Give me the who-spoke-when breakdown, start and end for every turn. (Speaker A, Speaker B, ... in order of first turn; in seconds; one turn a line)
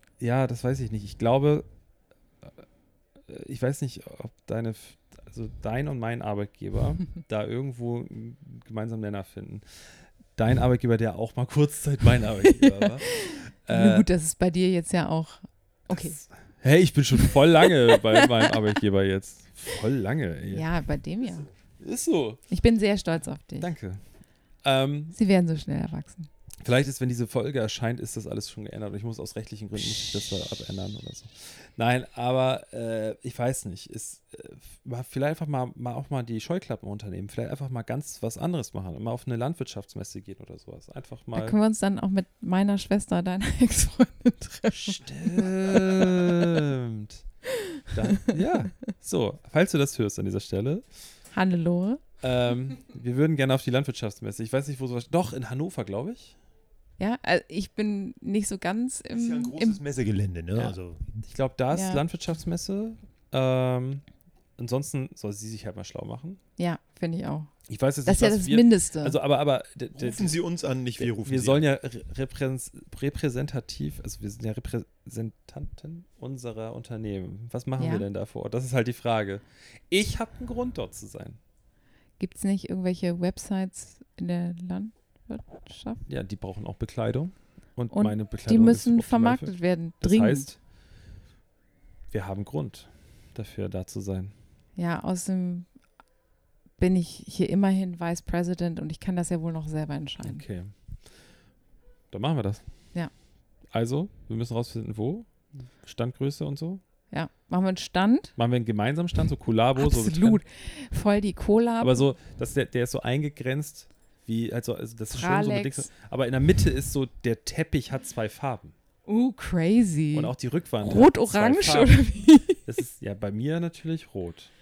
Speaker A: 0.2-1.6
Speaker A: 3.3-9.6
Speaker A: 10.3-14.1
Speaker B: 12.6-16.1
Speaker A: 15.9-20.7
Speaker B: 20.5-21.5
Speaker A: 21.8-22.4
Speaker B: 22.5-23.7
Speaker A: 23.6-24.0
Speaker A: 24.6-25.1
Speaker B: 25.1-26.3
Speaker A: 26.6-41.5
Speaker B: 41.3-46.4
Speaker A: 44.7-47.2
Speaker A: 47.9-50.8
Speaker B: 51.3-52.0
Speaker A: 52.2-56.4
Speaker B: 57.0-59.8
Speaker C: 59.1-61.0
Speaker A: 60.6-64.0
Speaker B: 61.7-62.0
Speaker A: 64.6-66.4
Speaker B: 66.6-67.5
Speaker A: 67.7-70.4
Speaker B: 68.0-69.2
Speaker C: 69.9-71.6
Speaker A: 71.0-81.4
Speaker B: 77.8-78.0
Speaker B: 82.2-86.0
Speaker A: 86.1-90.6
Speaker B: 87.9-90.5
Speaker A: 92.1-94.3
Speaker B: 94.8-95.7
Speaker B: 96.8-100.4
Speaker A: 100.2-100.7
Speaker A: 102.1-102.6
Speaker A: 103.7-106.8
Speaker B: 107.1-108.3
Speaker A: 108.4-110.4
Speaker B: 109.8-112.0
Speaker A: 111.8-118.7
Speaker B: 115.1-115.9
Speaker B: 119.0-122.6
Speaker A: 120.1-122.0
Speaker A: 122.6-124.5